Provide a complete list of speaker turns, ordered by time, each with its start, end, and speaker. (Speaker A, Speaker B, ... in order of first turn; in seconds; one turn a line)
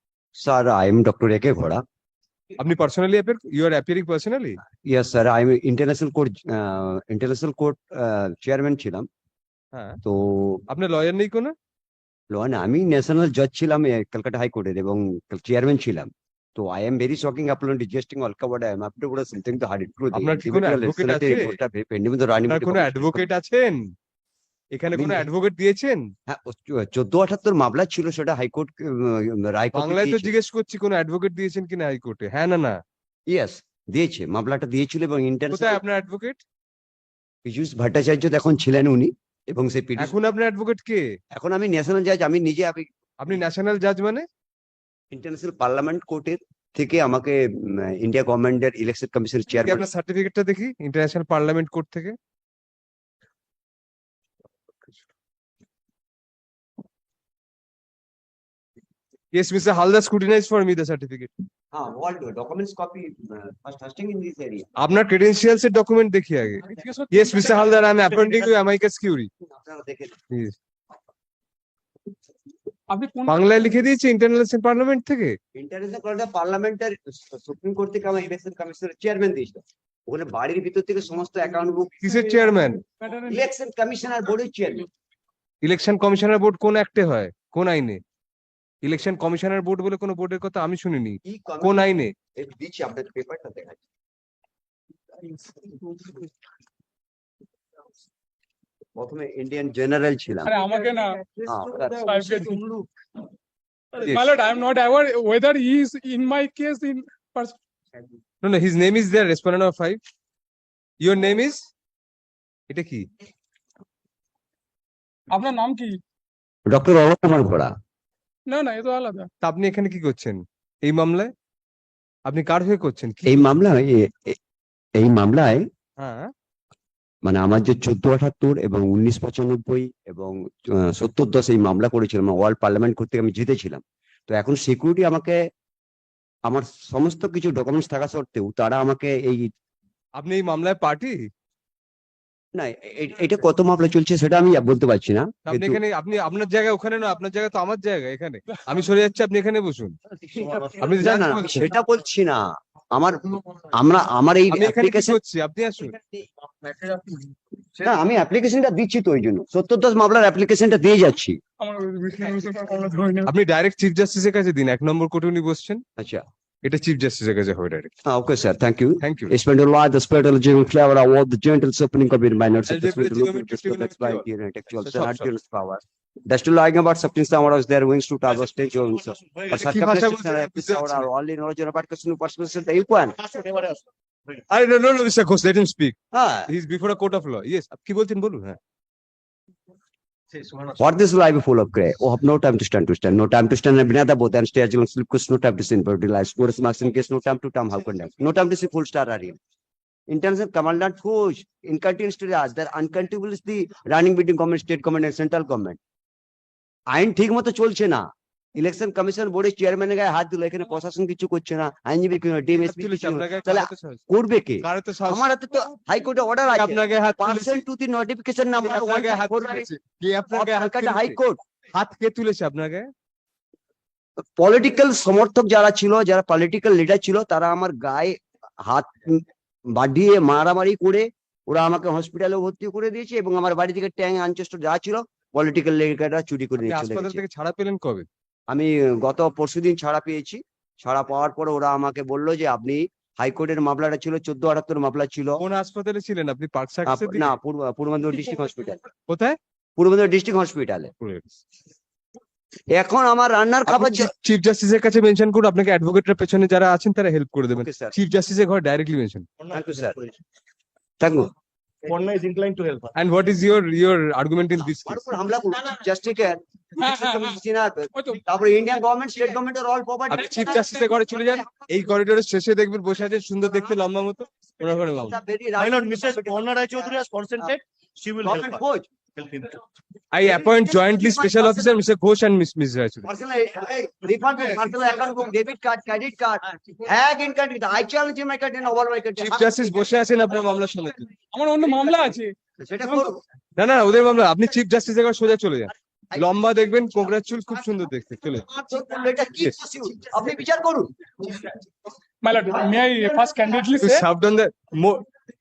Speaker A: 0.4-1.8
Speaker B: 2.6-4.6
Speaker A: 4.8-9.1
Speaker B: 9.7-10.0
Speaker A: 10.0-10.6
Speaker B: 10.7-11.5
Speaker A: 12.3-23.2
Speaker B: 20.1-21.6
Speaker B: 22.5-23.9
Speaker B: 24.7-26.1
Speaker A: 24.9-25.3
Speaker A: 26.3-30.3
Speaker B: 29.7-32.8
Speaker A: 33.3-35.8
Speaker B: 35.5-36.4
Speaker A: 37.4-40.1
Speaker B: 40.0-41.0
Speaker A: 41.3-43.3
Speaker B: 43.2-44.2
Speaker A: 45.1-49.9
Speaker B: 49.5-52.1
Speaker B: 59.3-61.3
Speaker A: 61.7-64.7
Speaker B: 64.8-69.3
Speaker C: 66.6-67.5
Speaker A: 69.5-70.2
Speaker C: 72.9-73.5
Speaker B: 73.2-75.4
Speaker A: 75.5-82.3
Speaker B: 82.0-82.8
Speaker C: 83.0-83.5
Speaker A: 83.2-84.9
Speaker B: 85.6-88.0
Speaker B: 88.8-92.1
Speaker A: 91.3-93.8
Speaker A: 95.3-96.1
Speaker A: 99.0-100.7
Speaker C: 100.4-101.2
Speaker D: 100.7-101.0
Speaker A: 101.5-102.1
Speaker C: 101.9-102.6
Speaker C: 104.0-107.6
Speaker B: 108.4-110.0
Speaker B: 111.0-111.7
Speaker B: 112.7-113.0
Speaker C: 115.3-116.0
Speaker A: 116.7-117.7
Speaker C: 118.5-119.3
Speaker B: 119.4-121.3
Speaker B: 122.2-123.5
Speaker A: 123.2-124.4
Speaker A: 125.0-125.6
Speaker B: 126.0-126.3
Speaker A: 127.2-135.4
Speaker A: 136.5-139.5
Speaker B: 140.2-141.3
Speaker A: 142.5-145.8
Speaker B: 145.4-150.0
Speaker D: 150.4-150.7
Speaker A: 150.4-152.4
Speaker B: 150.7-151.7
Speaker A: 152.9-155.2
Speaker B: 154.5-156.0
Speaker D: 156.4-157.3
Speaker A: 157.8-161.4
Speaker C: 161.6-163.3
Speaker B: 163.2-165.8
Speaker A: 166.0-166.2
Speaker B: 166.6-167.9
Speaker A: 168.1-183.2
Speaker B: 169.0-169.3
Speaker B: 172.7-175.3
Speaker B: 179.5-181.1
Speaker D: 183.2-183.8
Speaker B: 184.5-186.0
Speaker A: 186.1-186.5
Speaker B: 186.5-188.6
Speaker D: 190.4-190.8
Speaker A: 190.8-199.4
Speaker A: 200.1-205.8
Speaker A: 206.9-208.0
Speaker A: 208.5-219.7
Speaker B: 212.5-214.0
Speaker B: 214.6-215.8
Speaker B: 216.4-217.7
Speaker B: 218.6-221.2
Speaker A: 220.3-221.4
Speaker B: 221.7-222.9
Speaker A: 224.4-237.2
Speaker B: 236.6-238.1
Speaker A: 238.5-245.4
Speaker B: 245.4-247.4
Speaker A: 246.8-248.8
Speaker B: 249.1-249.4
Speaker A: 249.8-250.9
Speaker B: 251.0-251.3
Speaker A: 252.7-254.1
Speaker B: 253.7-259.3
Speaker A: 257.5-257.9
Speaker D: 259.4-260.2
Speaker A: 259.5-260.0
Speaker A: 261.0-261.3
Speaker D: 261.8-262.9
Speaker B: 262.9-265.1
Speaker A: 264.8-270.7
Speaker C: 266.8-267.4
Speaker B: 270.1-275.2
Speaker A: 274.9-277.6
Speaker D: 275.6-278.6
Speaker A: 278.2-278.9
Speaker D: 279.1-279.6
Speaker B: 280.1-283.1
Speaker A: 280.2-281.7
Speaker A: 283.0-289.9
Speaker B: 289.2-291.1
Speaker C: 291.3-293.1
Speaker A: 292.6-293.2
Speaker B: 293.6-298.5
Speaker A: 298.5-300.9
Speaker C: 302.2-304.0
Speaker B: 303.8-305.1